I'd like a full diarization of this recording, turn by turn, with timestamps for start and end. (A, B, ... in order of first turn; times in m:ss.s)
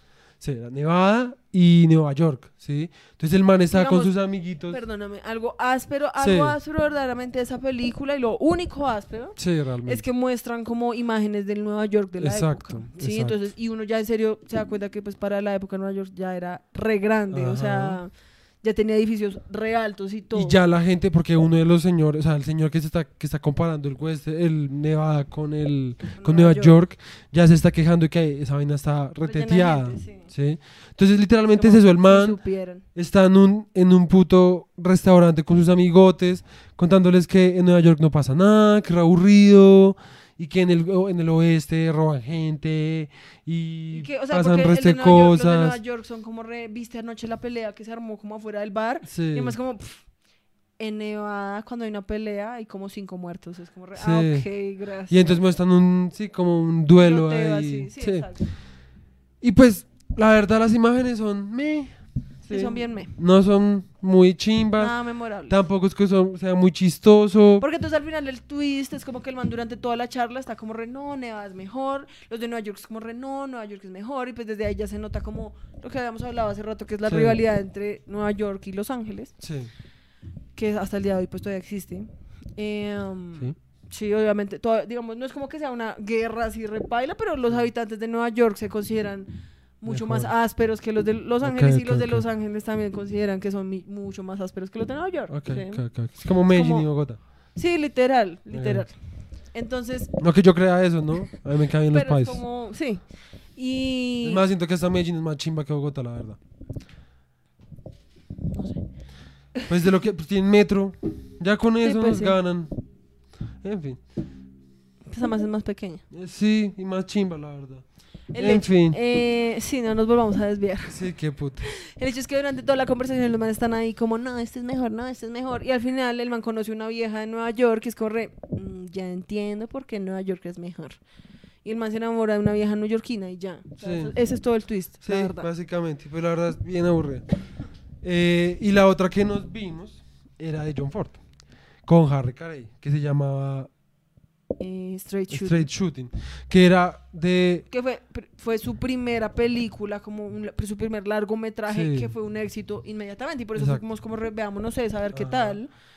0:00.4-0:04.8 A
0:03.7-0:20.6 B
0:06.2-0:06.6 A
0:09.4-0:10.0 A
0:12.2-0:13.4 A
0:17.3-0:18.0 A
0:20.3-0:45.8 A
0:26.1-0:26.8 B
0:29.2-0:30.3 B
0:31.5-0:32.8 B
0:43.9-0:50.1 B
0:49.0-0:49.6 A
0:50.8-0:55.4 B
0:53.9-0:54.6 A
0:55.1-0:58.3 A
0:57.0-0:58.5 B
0:59.4-1:07.6 A
1:02.5-1:03.1 B
1:04.8-1:05.6 B
1:07.6-1:19.4 B
1:17.1-1:17.4 A
1:19.4-1:19.7 A
1:20.5-1:40.2 B
1:29.9-1:30.3 A
1:31.4-1:32.2 A
1:35.3-1:37.2 A
1:38.5-1:38.9 A
1:40.2-1:42.4 A
1:41.9-1:44.4 B
1:44.2-1:46.4 A
1:48.5-1:49.7 B
1:49.6-1:52.7 A
1:51.8-1:52.4 B
1:53.6-1:54.0 A
1:55.1-1:56.0 B
1:56.1-1:59.0 A
1:58.3-2:11.0 B
2:00.9-2:01.7 A
2:11.6-2:15.5 B
2:13.8-2:14.2 A
2:15.0-2:21.2 A
2:21.8-2:23.7 A
2:24.6-2:25.7 B
2:25.3-2:27.7 A
2:27.7-2:35.7 B
2:31.7-2:32.1 A
2:33.5-2:33.8 A
2:35.1-2:35.6 A